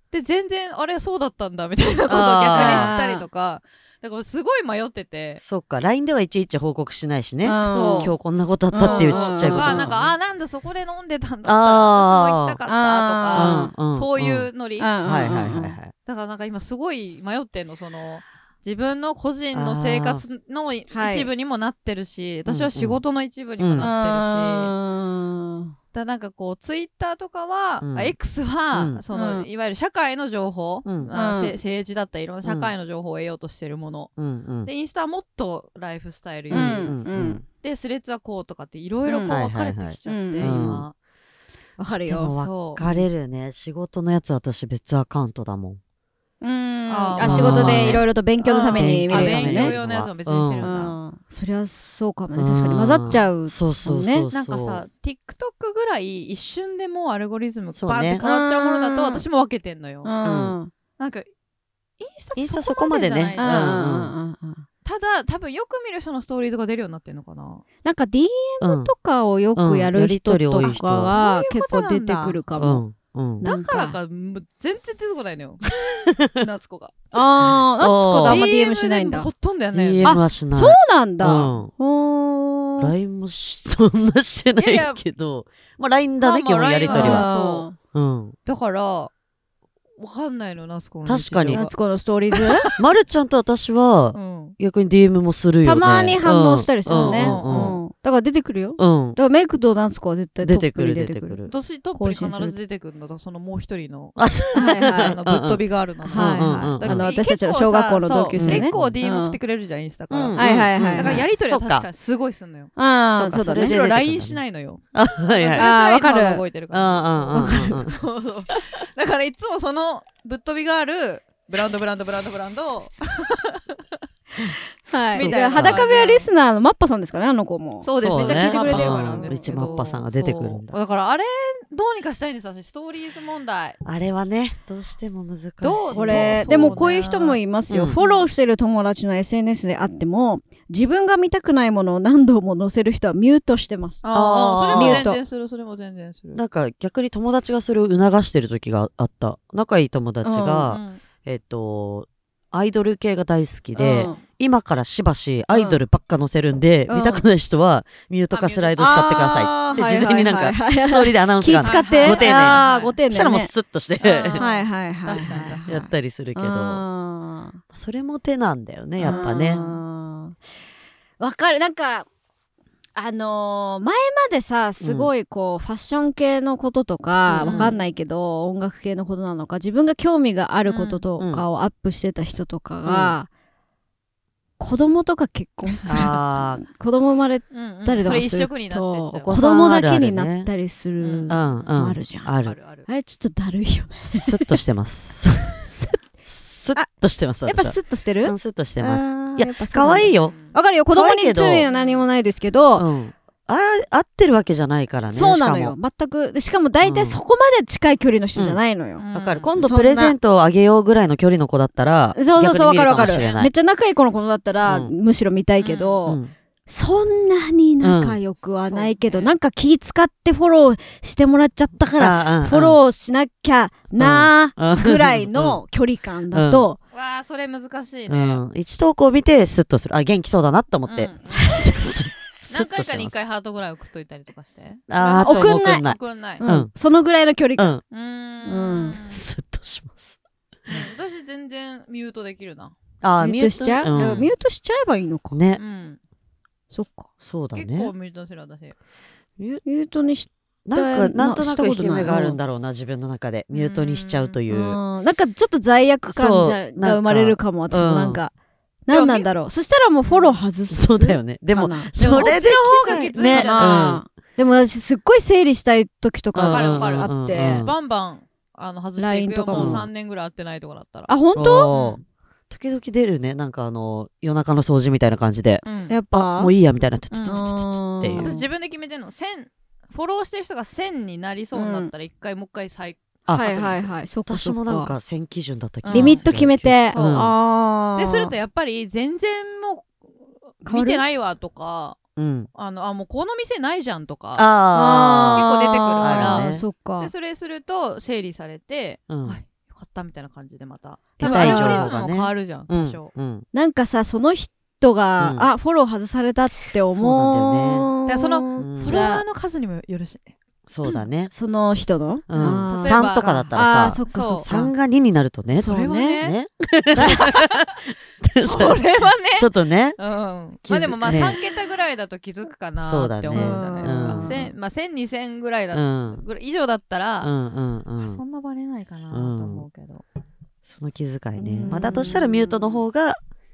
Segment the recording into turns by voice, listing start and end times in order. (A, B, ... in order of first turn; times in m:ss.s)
0:00.1-0:05.4 A
0:02.1-0:02.9 B
0:02.5-0:03.2 C
0:05.4-0:10.1 B
0:07.4-0:08.1 C
0:07.6-0:08.1 A
0:08.7-0:09.9 C
0:08.7-0:14.9 A
0:11.4-0:12.6 B
0:12.7-0:13.7 C
0:13.3-0:14.5 B
0:14.8-0:15.8 C
0:15.0-0:15.9 B
0:16.0-0:24.7 A
0:19.5-0:20.2 B
0:20.9-0:21.3 C
0:22.5-0:23.0 B
0:23.6-0:23.9 B
0:23.8-0:25.7 C
0:25.9-0:34.1 A
0:27.8-0:28.1 B
0:28.7-0:29.0 B
0:29.1-0:29.5 C
0:30.8-0:31.1 B
0:31.1-0:31.6 C
0:32.4-0:32.7 B
0:34.2-0:34.7 B
0:34.6-0:36.9 A
0:36.5-0:37.4 B
0:36.5-0:37.4 C
0:37.6-0:40.9 A
0:39.0-0:39.4 C
0:39.3-0:40.8 B
0:40.0-0:40.6 C
0:41.8-0:43.0 C
0:41.9-0:45.8 B
0:42.3-0:42.8 A
0:46.4-0:49.8 C
0:46.9-0:50.9 A
0:47.2-0:48.1 B
0:48.7-0:50.7 B
0:50.6-0:54.3 C
0:52.4-0:54.8 B
0:54.3-1:00.1 A
0:57.7-0:58.2 B
0:58.2-0:59.2 C
1:00.0-1:00.7 C
1:00.2-1:00.6 B
1:01.0-1:01.3 A
1:02.0-1:03.8 A
1:02.4-1:04.1 B
1:03.4-1:04.6 C
1:04.8-1:07.6 A
1:07.8-1:12.8 C
1:08.6-1:08.9 B
1:09.6-1:11.2 B
1:10.6-1:12.4 A
1:12.6-1:13.5 B
1:13.4-1:14.0 C
1:13.4-1:15.7 A
1:16.1-1:16.4 B
1:16.2-1:17.0 A
1:17.1-1:19.3 C
1:17.8-1:18.4 B
1:18.2-1:20.2 A
1:19.7-1:21.7 B
1:20.0-1:22.9 C
1:22.8-1:27.3 B
1:24.6-1:25.0 A
1:26.2-1:27.6 A
1:26.9-1:27.8 C
1:27.9-1:28.4 B
1:28.4-1:29.1 A
1:30.0-1:31.7 A
1:31.0-1:31.6 B
1:31.5-1:32.7 C
1:32.3-1:32.8 A
1:32.8-1:37.8 B
1:34.1-1:34.6 A
1:35.6-1:41.4 C
1:36.9-1:37.8 A
1:38.8-1:39.2 B
1:40.4-1:41.5 B
1:41.5-1:44.2 A
1:41.9-1:42.6 C
1:44.2-1:45.6 B
1:44.5-1:45.2 C
1:44.7-1:52.7 A
1:46.0-1:49.4 C
1:46.1-1:47.1 B
1:48.4-1:49.0 B
1:50.1-1:51.9 B
1:50.4-1:51.2 C
1:52.8-1:53.8 C
1:53.1-1:54.4 B
1:53.4-2:03.8 A
1:54.9-1:55.7 B
1:55.6-1:56.4 C
1:56.7-1:58.0 B
1:57.3-1:57.8 C
2:04.8-2:09.8 C
2:05.1-2:05.8 B
2:05.1-2:06.3 A
2:07.8-2:13.8 A
2:08.0-2:10.7 B
2:13.8-2:16.9 B
2:15.6-2:17.4 A
2:15.9-2:24.0 C
2:17.7-2:18.0 B
2:18.0-2:18.2 A
2:24.0-2:26.4 A
2:24.1-2:25.1 B
2:24.7-2:25.2 C
2:26.3-2:44.4 B
2:30.2-2:30.7 C
2:30.7-2:31.0 A
2:33.8-2:34.2 C
2:35.5-2:35.8 C
2:36.9-2:37.2 C
2:38.3-2:40.0 A
2:38.8-2:43.5 C
2:41.6-2:43.0 A
2:44.0-2:45.7 A
2:44.3-2:47.6 C
2:45.6-2:46.8 B
2:47.7-2:49.6 B
2:49.0-2:49.8 A
2:49.0-2:50.4 C
2:51.2-2:52.1 C
2:52.9-3:03.3 C
2:54.8-2:55.1 B
2:57.3-2:57.7 B
2:57.4-2:57.8 A
3:00.6-3:01.0 A
3:01.2-3:01.4 B
3:02.8-3:03.1 B
3:04.6-3:12.3 C
3:05.6-3:06.2 A
3:05.9-3:06.6 B
3:07.5-3:09.4 A
3:09.2-3:10.5 B
3:11.0-3:11.8 A
3:11.3-3:12.6 B
3:12.4-3:12.9 A
3:12.8-3:14.5 C
3:14.1-3:15.6 B
3:15.6-3:16.0 C
3:16.2-3:20.3 B
3:17.4-3:22.8 C
3:19.9-3:20.6 A
3:20.9-3:21.7 B
3:21.7-3:22.1 A
3:22.8-3:25.8 B
3:25.1-3:29.0 C
3:26.8-3:27.2 B
3:29.0-3:29.5 A
3:29.1-3:33.5 B
3:29.6-3:30.1 C
3:32.1-3:46.8 C
3:34.6-3:34.9 B
3:35.6-3:36.0 A
3:36.0-3:36.3 B
3:37.8-3:38.2 B
3:38.6-3:39.3 A
3:42.0-3:42.8 B
3:44.0-3:45.6 B
3:46.3-3:46.6 B
3:46.9-3:48.4 A
3:48.1-3:53.2 B
3:50.9-3:56.4 A
3:54.9-3:56.7 B
3:55.2-3:57.8 C
3:57.9-3:59.2 A
3:58.4-3:59.0 C
3:59.0-4:00.1 B
4:00.7-4:02.7 A
4:03.0-4:04.3 B
4:03.2-4:05.4 C
4:05.3-4:05.6 B
4:05.6-4:06.0 A
4:06.7-4:07.1 C
4:07.2-4:07.9 B
4:07.5-4:08.7 A
4:09.6-4:12.4 C
4:10.6-4:14.8 B
4:13.5-4:14.4 A
4:14.5-4:18.3 C
4:16.0-4:18.2 B
4:18.9-4:27.6 C
4:18.9-4:19.3 A
4:20.1-4:20.4 A
4:20.7-4:24.0 B
4:22.0-4:23.9 A
4:26.3-4:27.7 B
4:26.5-4:31.1 A
4:29.0-4:29.8 C
4:29.5-4:29.9 B
4:31.1-4:31.7 C
4:31.3-4:38.3 B
4:31.7-4:32.0 A
4:35.6-4:36.0 A
4:35.9-4:36.5 C
4:37.1-4:37.4 A
4:37.2-4:38.5 C
4:38.1-4:43.9 A
4:41.5-4:41.9 C
4:43.3-4:43.6 B
4:43.3-4:44.9 C
4:44.2-4:47.3 B
4:45.8-4:46.2 A
4:45.9-4:48.3 C
4:46.9-4:47.3 A
4:47.9-4:52.0 A
4:50.6-4:51.0 C
4:52.2-4:52.5 B
4:52.5-4:54.5 A
4:54.4-4:55.5 B
4:54.7-4:57.1 C
4:55.3-5:03.1 A
4:56.0-4:56.6 B
4:59.1-4:59.4 B
5:01.2-5:03.4 B
5:01.2-5:01.9 C
5:03.5-5:09.2 C
5:05.2-5:05.5 B
5:06.9-5:07.9 B
5:08.0-5:10.3 A
5:08.6-5:09.0 B
5:10.7-5:11.3 B
5:11.3-5:14.7 C
5:12.3-5:18.8 B
5:12.4-5:13.5 A
5:14.1-5:14.5 A
5:15.6-5:16.2 C
5:15.6-5:16.4 A
5:17.0-5:17.8 A
5:18.4-5:27.3 A
5:19.3-5:20.0 B
5:20.6-5:21.4 B
5:22.8-5:24.4 B
5:23.3-5:24.5 C
5:25.7-5:26.2 B
5:27.2-5:28.2 B
5:28.0-5:30.0 A
5:29.1-5:29.6 B
5:30.6-5:33.2 B
5:31.4-5:32.6 C
5:31.6-5:32.1 A